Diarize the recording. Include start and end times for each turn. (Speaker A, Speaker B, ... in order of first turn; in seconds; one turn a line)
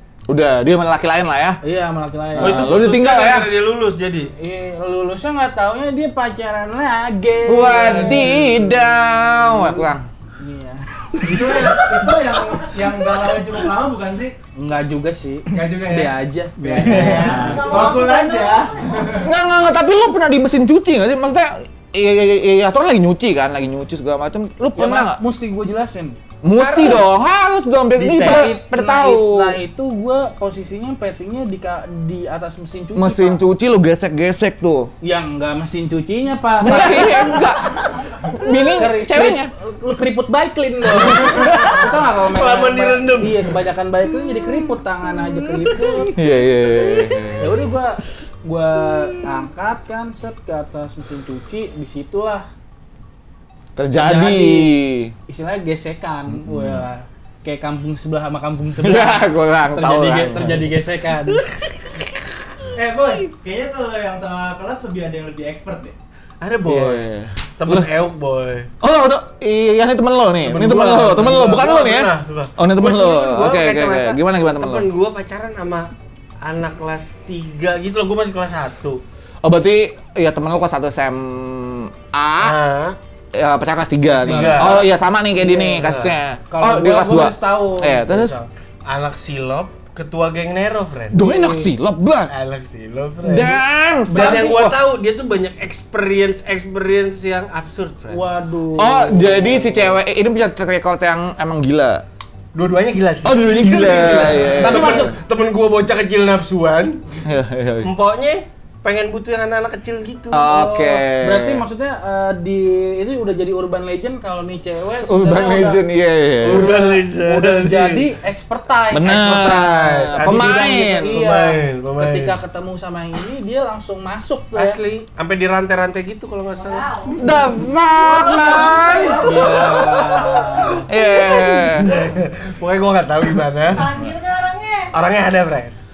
Speaker A: 0.3-1.6
Speaker B: 1.6-2.8
Speaker A: 2.4-3.5
Speaker C: 2.4-4.3
Speaker B: 4.4-10.9
Speaker A: 7.5-10.0
Speaker C: 7.8-8.3
Speaker C: 11.2-11.7
Speaker D: 11.2-14.3
Speaker B: 14.6-17.8
Speaker D: 15.5-19.3
Speaker C: 16.7-17.7
Speaker E: 17.5-18.9
Speaker A: 19.1-25.2
Speaker B: 24.8-26.2
Speaker A: 26.4-29.6
Speaker C: 26.6-27.0
Speaker C: 27.9-28.5
Speaker B: 28.1-33.4
Speaker A: 33.0-34.9
Speaker B: 35.0-37.4
Speaker A: 36.6-39.5
Speaker B: 38.8-46.1
Speaker C: 41.0-43.5
Speaker A: 46.1-47.6
Speaker B: 47.4-52.5
Speaker A: 53.8-55.1
Speaker B: 54.0-61.5
Speaker A: 56.3-56.8
Speaker A: 58.8-60.7
Speaker D: 62.7-66.0
Speaker C: 66.4-68.7
Speaker A: 66.7-67.9
Speaker A: 68.8-74.9
Speaker B: 70.5-71.2
Speaker C: 70.6-79.0
Speaker A: 79.4-82.6
Speaker C: 82.4-83.0
Speaker A: 83.3-88.4
Speaker C: 84.2-84.8
Speaker B: 84.2-85.9
Speaker C: 85.7-86.2
Speaker B: 86.5-88.5
Speaker C: 88.8-91.2
Speaker A: 91.1-92.3
Speaker B: 91.2-91.7
Speaker C: 92.3-98.2
Speaker A: 93.2-94.8
Speaker B: 94.1-94.7
Speaker B: 98.1-100.0
Speaker A: 98.8-102.0
Speaker C: 102.5-107.2
Speaker A: 103.2-105.2
Speaker B: 104.3-105.2
Speaker A: 107.2-107.9
Speaker C: 107.8-110.4
Speaker A: 110.3-111.7
Speaker B: 110.4-115.9
Speaker A: 115.0-116.7
Speaker C: 116.4-118.1
Speaker B: 116.4-124.8
Speaker A: 118.9-121.2
Speaker C: 119.5-122.4
Speaker C: 124.5-127.2
Speaker E: 126.8-127.2
Speaker A: 127.2-129.3
Speaker E: 128.3-129.3
Speaker B: 128.8-130.9
Speaker C: 129.3-129.7
Speaker A: 130.9-131.9
Speaker C: 131.6-134.1
Speaker E: 133.9-134.9
Speaker C: 134.9-135.8